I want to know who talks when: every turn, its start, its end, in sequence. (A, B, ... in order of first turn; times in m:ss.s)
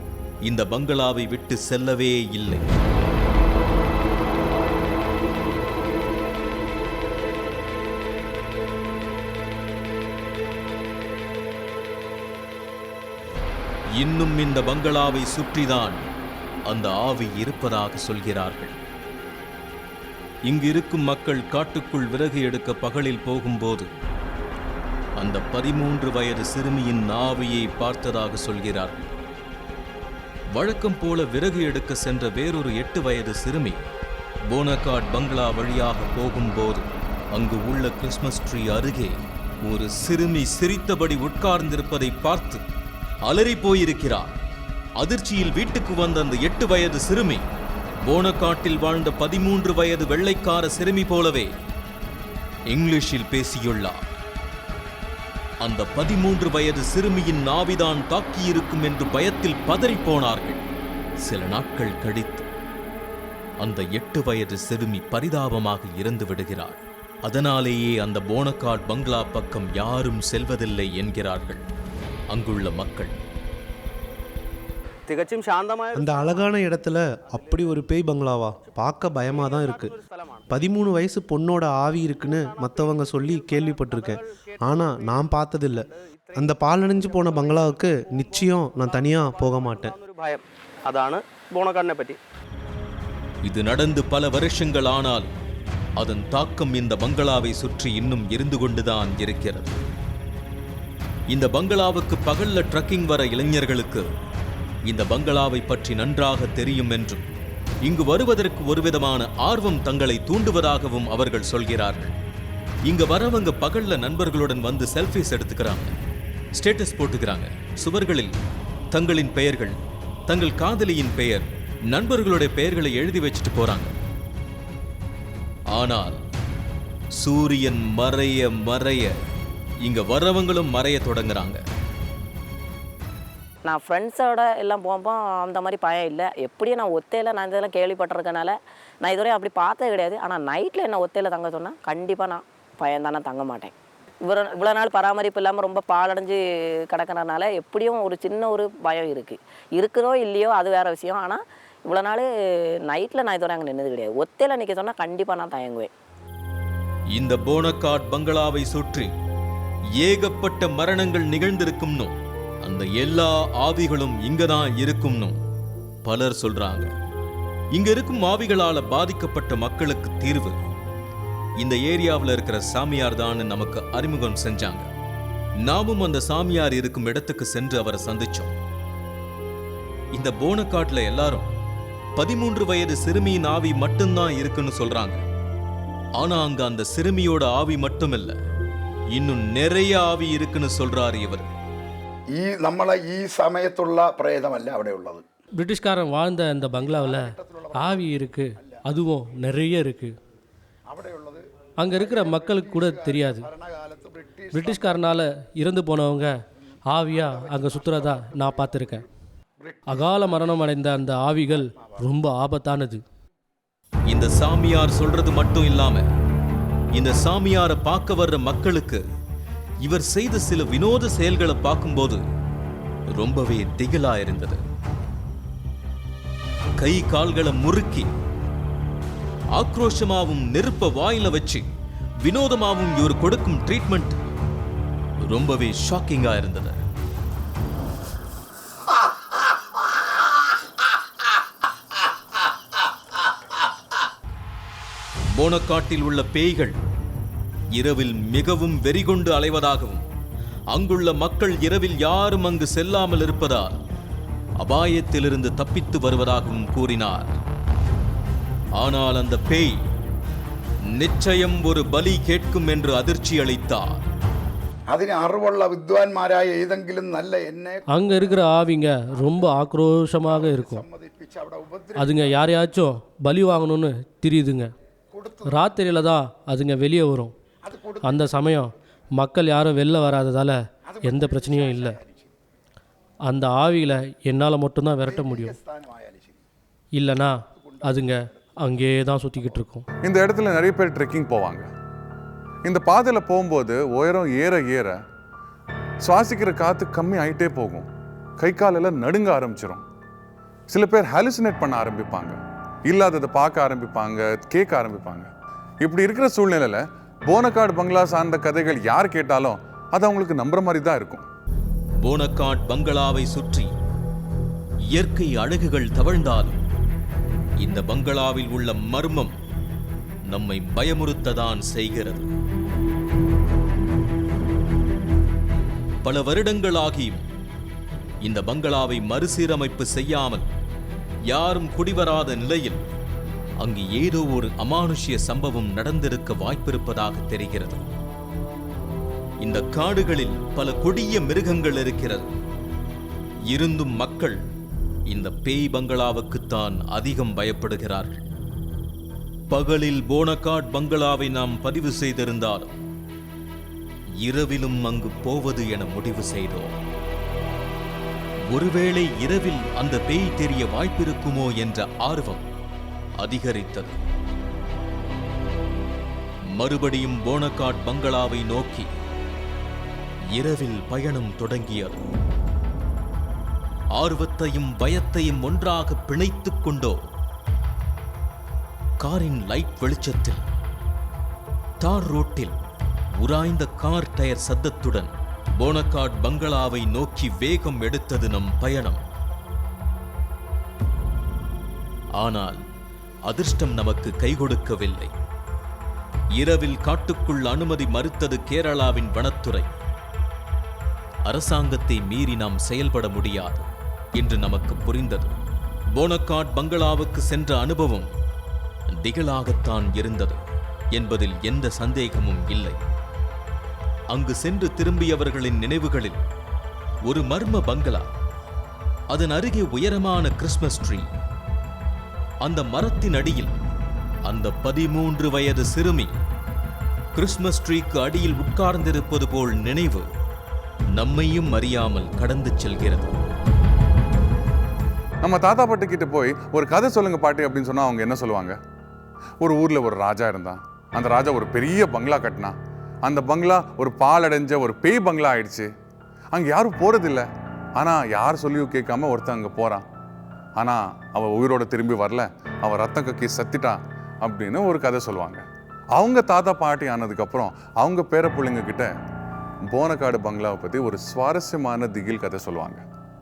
0:00.4-0:02.7 A
0:14.0-0:16.0 A
0:16.6-0:18.8 A
0:20.5-0:23.9 A
0:25.2-0:29.1 A
0:30.5-0:33.8 A
0:34.5-0:42.6 A
0:43.2-0:44.4 A
0:45.0-0:47.5 A
0:48.0-0:51.5 A
0:52.7-0:54.0 A
0:55.6-1:00.6 A
1:01.2-1:02.5 A
1:03.6-1:11.6 A
1:12.3-1:13.1 A
1:15.1-1:16.5 B
1:15.9-1:20.0 C
1:19.3-1:20.4 B
1:20.5-1:30.0 C
1:22.4-1:24.8 B
1:29.2-1:32.2 B
1:33.4-1:35.3 A
1:36.0-1:39.8 A
1:41.3-1:44.1 A
1:44.9-1:47.2 A
1:47.8-1:52.1 A
1:52.8-1:55.9 A
1:56.6-1:58.4 A
1:58.9-1:59.8 A
2:00.3-2:03.9 A
2:05.7-2:06.2 A
2:07.1-2:09.1 A
2:09.8-2:11.6 A
2:13.6-2:32.3 D
2:32.9-2:35.9 D
2:37.1-2:39.1 A
2:40.0-2:45.4 A
2:46.0-2:46.9 A
2:47.7-2:50.6 A
2:51.6-2:54.9 A
2:55.6-2:58.5 A
3:00.1-3:01.5 A
3:02.2-3:05.2 A
3:06.2-3:08.4 A
3:09.1-3:11.5 A
3:12.3-3:15.2 E
3:15.6-3:20.1 F
3:16.8-3:18.8 E
3:20.9-3:25.0 E
3:21.8-3:23.5 F
3:24.5-3:26.3 F
3:26.9-3:29.0 F
3:27.1-3:29.0 E
3:29.6-3:30.4 E
3:29.9-3:33.0 F
3:31.5-3:32.0 E
3:34.1-3:36.1 A
3:36.9-3:39.0 A
3:39.8-3:42.2 A
3:43.1-3:44.6 A
3:46.8-3:48.1 A
3:49.6-3:51.7 A
3:52.2-3:54.2 A
3:55.3-3:56.8 A
4:05.3-4:06.8 A
4:07.7-4:10.1 A
4:10.7-4:13.8 A
4:14.6-4:17.4 A
4:18.8-4:19.8 A
4:20.9-4:24.1 A
4:24.9-4:28.4 E
4:27.9-4:30.9 F
4:30.3-4:32.4 E
4:32.0-4:34.7 F
4:35.1-4:35.6 E
4:35.4-4:37.3 F
4:37.6-4:38.2 E
4:38.0-4:42.0 F
4:40.9-4:42.3 E
4:43.3-4:45.6 F
4:45.0-4:46.4 E
4:46.9-4:49.8 F
4:47.6-4:48.5 E
4:50.0-4:51.7 G
4:52.6-4:55.0 G
4:56.0-4:57.9 G
4:58.4-4:59.8 G
5:00.7-5:05.3 G
5:05.8-5:11.3 G
5:12.0-5:13.7 A
5:14.9-5:16.6 A
5:17.6-5:19.4 A
5:20.3-5:22.3 A
5:26.0-5:27.3 A
5:28.2-5:30.4 A
5:31.3-5:32.8 A
5:33.6-5:37.8 A
5:39.4-5:42.3 A
5:43.5-5:44.4 A
5:45.1-5:48.3 A
5:49.5-5:52.8 A
5:54.2-5:56.8 A
5:58.5-6:02.5 A
6:03.2-6:03.9 A
6:06.5-6:08.9 A
6:10.3-6:12.1 A
6:13.9-6:17.1 A
6:19.0-6:20.4 A
6:21.8-6:22.6 A
6:23.2-6:29.0 A
6:32.2-6:32.6 A
6:33.2-6:35.1 A
6:36.3-6:39.7 A
6:41.3-6:45.4 A
6:45.9-6:48.1 A
6:48.9-6:50.4 A
6:50.9-6:52.8 A
6:54.1-6:56.2 A
6:57.0-6:58.1 A
6:59.1-7:01.1 A
7:02.4-7:03.6 A
7:04.2-7:06.1 A
7:07.1-7:10.1 A
7:10.9-7:13.1 A
7:15.2-7:18.6 G
7:19.4-7:25.7 G
7:26.3-7:27.3 G
7:27.8-7:29.8 G
7:30.6-7:35.4 G
7:35.9-7:38.9 G
7:39.7-7:42.8 G